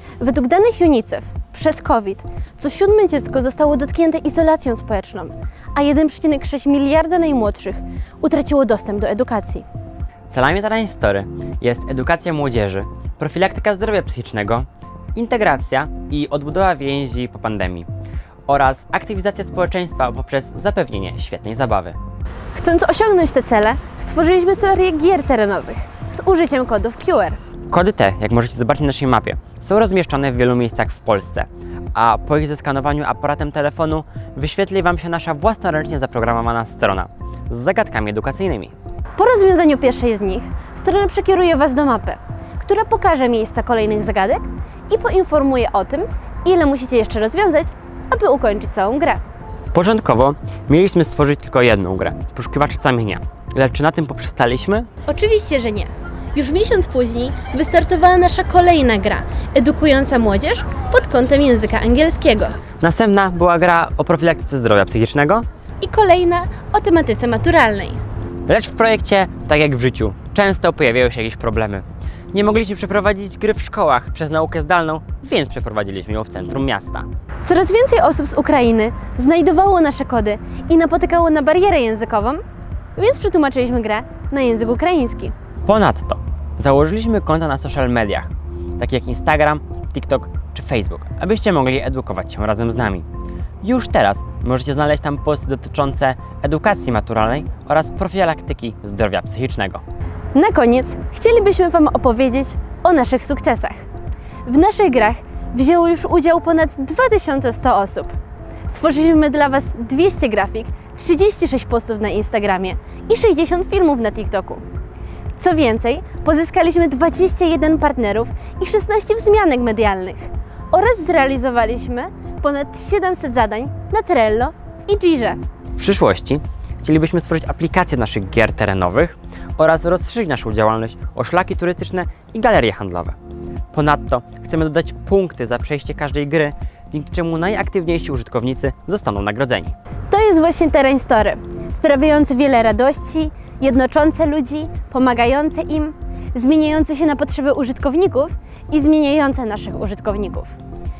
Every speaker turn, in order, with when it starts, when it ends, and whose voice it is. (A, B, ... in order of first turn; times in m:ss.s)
0:00.2-0:09.6 A
0:10.3-0:17.9 B
0:18.5-0:22.0 B
0:22.5-0:27.4 A
0:27.7-0:38.7 B
0:39.2-0:49.2 A
0:49.7-0:54.9 B
0:55.0-1:02.6 A
1:02.8-1:05.4 B
1:05.8-1:08.0 A
1:08.5-1:17.1 B
1:17.4-1:22.4 A
1:23.0-1:25.3 A
1:25.6-1:33.1 B
1:33.6-1:39.8 B
1:40.3-1:43.8 A
1:44.4-1:48.1 A
1:48.7-1:54.6 A
1:55.4-2:05.4 A
2:05.8-2:13.2 B
2:13.7-2:19.7 B
2:20.1-2:30.6 A